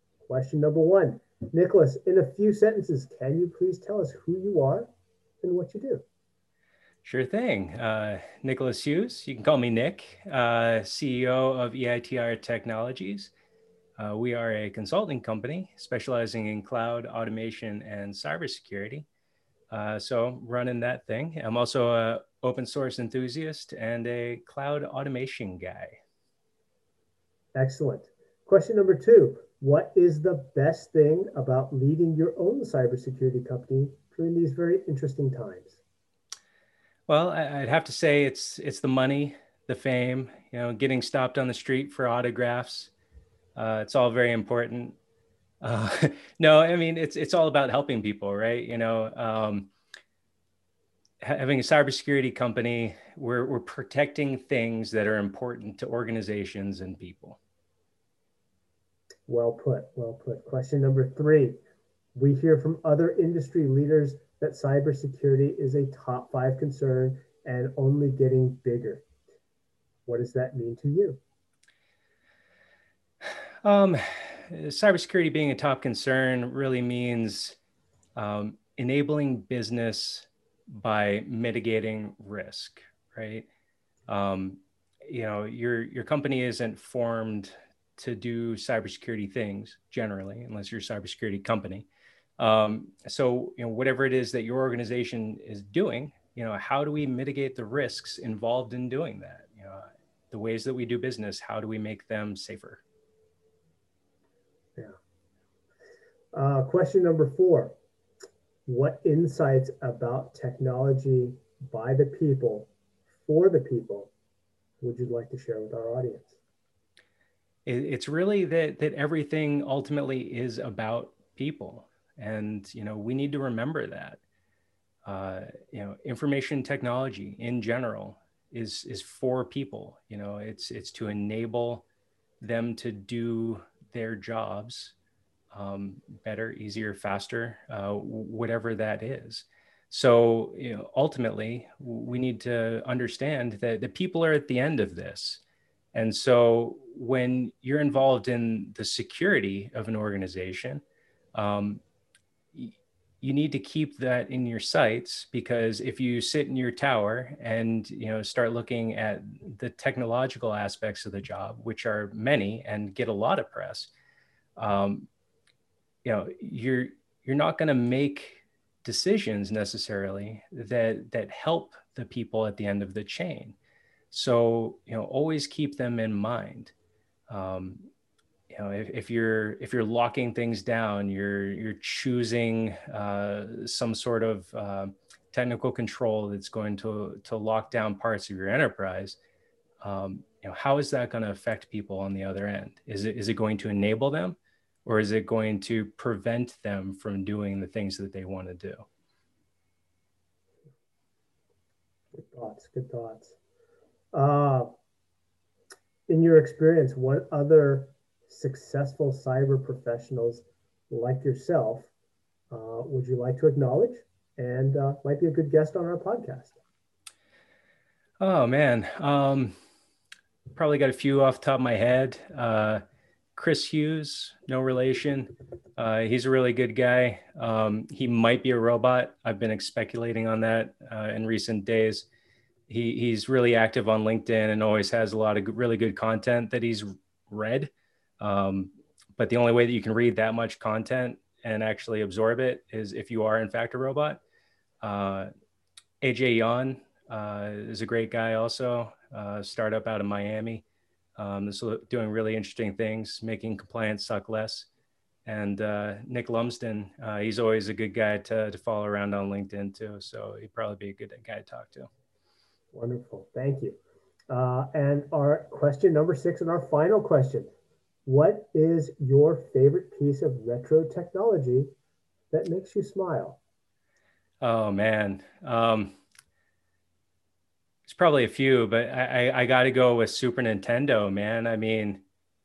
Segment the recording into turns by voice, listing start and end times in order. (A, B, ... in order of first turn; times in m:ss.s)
0:00.2-0:04.9 A
0:05.4-0:06.0 A
0:07.0-0:13.3 B
0:14.0-0:19.0 B
0:19.7-0:26.0 B
0:27.5-0:35.8 A
0:37.1-0:42.9 B
0:43.6-0:45.0 B
0:45.6-0:49.7 B
0:51.2-0:57.4 B
0:59.3-1:01.6 A
1:02.1-1:09.0 A
1:10.0-1:11.2 A
1:13.6-1:17.6 B
1:18.2-1:23.5 B
1:24.1-1:31.9 B
1:32.4-1:42.8 B
1:46.3-1:47.8 A
1:48.6-1:52.7 A
1:53.2-1:54.1 A
1:54.8-1:56.4 A
1:57.6-2:04.2 B
2:05.0-2:11.8 B
2:12.4-2:14.9 B
2:15.5-2:25.4 B
2:25.9-2:30.8 B
2:31.3-2:31.8 B
2:32.5-2:43.9 B
2:44.6-2:45.1 B
2:46.0-2:53.6 B
2:54.1-2:56.7 B
2:57.3-2:57.8 B
2:58.5-3:09.2 B
3:09.8-3:18.8 B
3:22.1-3:23.3 A
3:24.1-3:24.7 A
3:26.1-3:31.9 A
3:32.5-3:36.6 A
3:38.2-3:39.5 B
3:40.5-3:42.8 B
3:43.4-3:52.1 B
3:52.7-4:04.2 B
4:04.8-4:05.3 B
4:06.0-4:10.6 B
4:11.2-4:14.7 B
4:15.2-4:21.9 B
4:22.7-4:23.8 A
4:24.3-4:27.5 A
4:28.0-4:31.7 A
4:32.3-4:33.4 A
4:34.4-4:35.9 B
4:37.8-4:42.0 B